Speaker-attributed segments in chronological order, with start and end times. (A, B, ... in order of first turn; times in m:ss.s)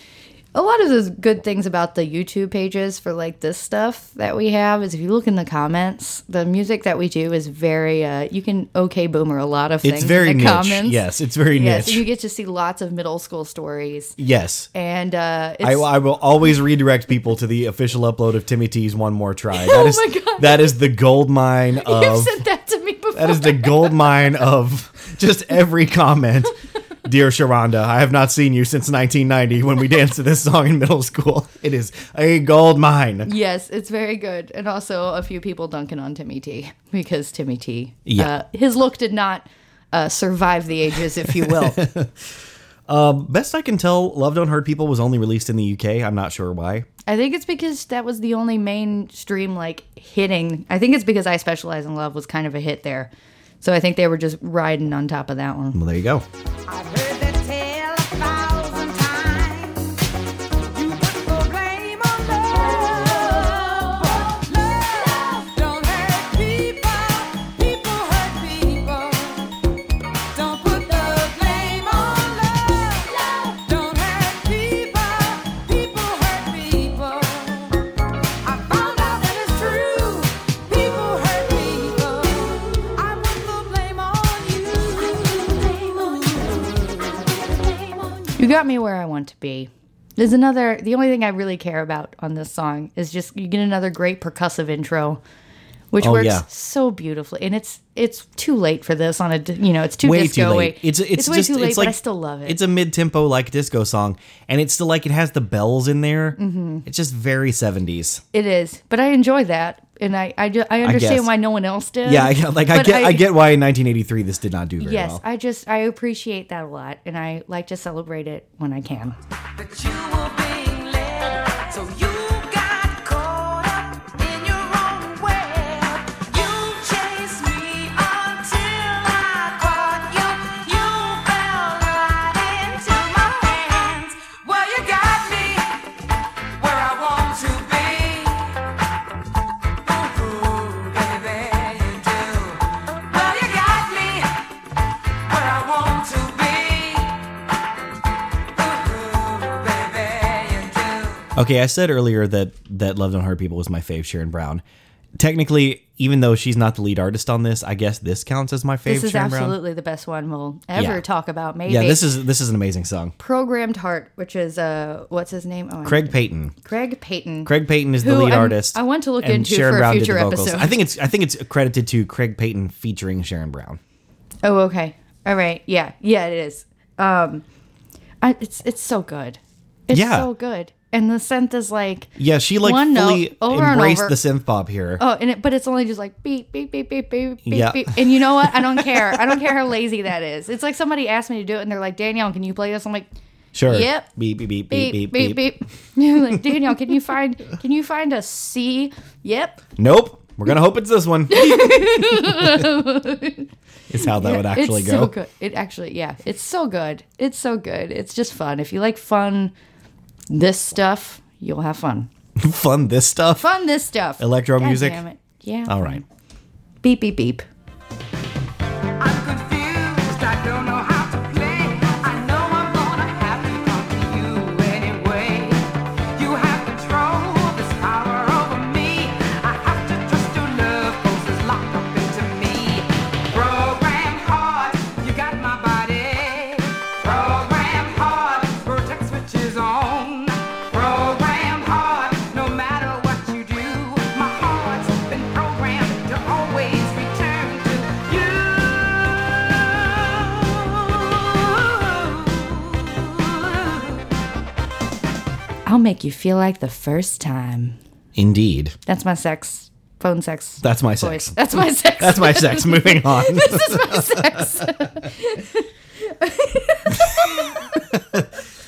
0:00.5-0:14.2 A
0:09.8-0:12.0 B
0:14.2-0:14.7 B
0:14.7-0:15.9 A
0:15.6-0:22.4 B
0:19.5-0:20.8 A
0:21.8-0:24.3 A
0:23.1-0:33.3 B
0:33.2-0:41.8 A
0:38.1-0:38.3 B
0:41.2-0:42.3 B
0:42.9-0:46.9 B
0:47.1-0:53.1 A
0:53.6-0:55.8 A
0:55.7-0:56.2 B
0:56.7-1:00.0 C
1:00.7-1:09.5 C
1:10.3-1:17.8 C
1:18.4-1:28.4 C
1:28.4-1:35.2 A
1:35.9-1:42.6 A
1:36.0-1:36.4 B
1:40.0-1:48.2 B
1:46.4-1:46.8 A
1:48.3-1:53.3 A
1:50.8-1:51.3 B
1:52.0-1:55.2 B
1:54.8-1:59.2 A
1:59.6-2:15.9 C
2:16.6-2:18.6 C
2:19.9-2:24.3 C
2:25.3-2:27.2 C
2:28.6-2:31.3 C
2:31.4-2:34.6 B
2:35.2-2:39.6 B
2:38.9-2:42.0 A
2:40.8-2:41.0 B
2:41.7-2:43.1 B
2:43.2-2:50.8 A
2:45.8-2:46.5 B
2:47.5-2:53.8 B
2:54.4-2:57.4 A
2:58.2-3:04.2 A
2:59.9-3:00.3 B
3:02.2-3:05.0 B
3:05.0-3:13.1 A
3:07.5-3:09.4 B
3:13.5-3:15.4 B
3:13.7-3:14.1 A
3:14.7-3:19.6 A
3:19.8-3:22.7 B
3:21.3-3:23.5 A
3:23.9-3:25.1 B
3:24.0-3:29.5 A
3:30.3-3:32.1 A
3:32.4-3:33.5 B
3:33.4-3:36.0 A
3:34.2-3:35.0 B
3:35.7-3:36.0 B
3:36.8-3:37.5 A
3:39.0-3:45.6 C
3:46.2-4:14.0 C
4:15.7-4:17.8 A
4:18.2-4:18.8 B
4:18.9-4:27.8 A
4:20.6-4:24.7 B
4:26.9-4:28.4 B